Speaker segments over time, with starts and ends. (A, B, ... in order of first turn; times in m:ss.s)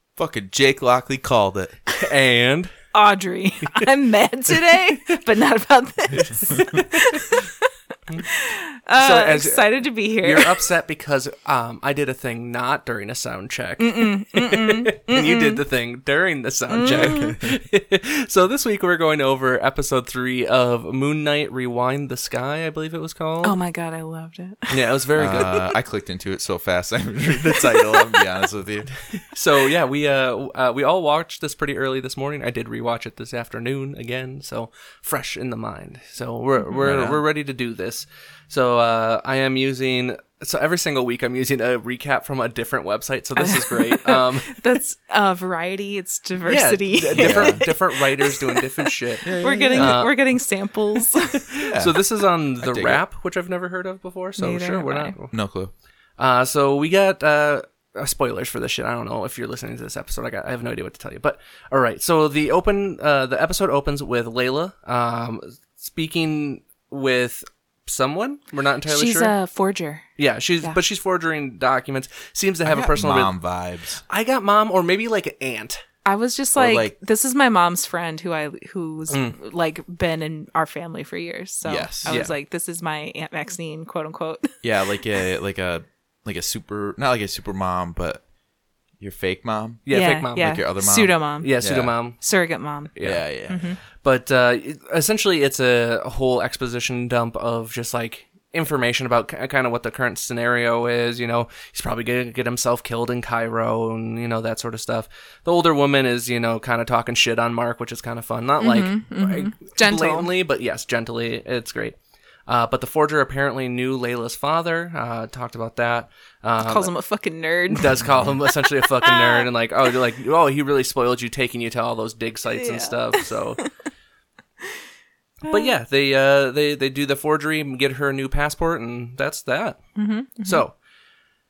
0:00.2-0:01.8 A
0:02.0-0:02.7 B
0:02.9-0:07.7 C
0:06.4-0:07.3 B
0:08.3-0:10.5 C
0:09.0-0:23.6 B
0:13.8-0:15.6 C
0:16.7-0:17.4 C
0:16.8-0:17.5 A
0:23.4-0:25.6 C
0:24.7-0:25.6 B
0:25.2-0:28.9 A
0:27.7-0:28.1 C
0:29.2-0:44.6 B
0:36.8-0:37.2 A
0:43.4-0:51.6 C
0:46.4-0:50.1 B
0:47.2-0:47.6 A
0:49.2-0:50.0 A
0:51.5-0:55.3 B
0:51.6-0:52.0 A
0:52.6-0:53.0 A
0:54.4-0:55.1 C
0:55.3-0:55.7 A
0:56.2-1:09.3 B
1:08.9-1:10.0 C
1:10.2-1:13.3 B
1:12.6-1:14.0 A
1:14.0-1:15.8 B
1:16.0-1:24.5 C
1:16.6-1:16.9 A
1:19.1-1:19.4 B
1:21.6-1:22.2 A
1:22.1-1:22.3 B
1:24.6-1:28.2 A
1:29.0-1:29.8 A
1:29.8-1:30.6 B
1:29.9-1:31.5 C
1:30.4-1:31.9 A
1:31.4-1:32.3 B
1:32.2-1:32.9 C
1:32.9-1:33.2 B
1:33.0-1:33.7 A
1:33.5-1:33.8 C
1:33.8-1:56.9 B
1:48.6-1:50.3 C
1:56.6-1:59.4 C
1:57.7-2:03.6 B
1:58.1-1:58.3 A
2:02.5-2:03.7 C
2:05.4-2:05.7 C
2:05.5-2:09.8 B
2:10.0-2:10.6 C
2:10.4-2:10.7 B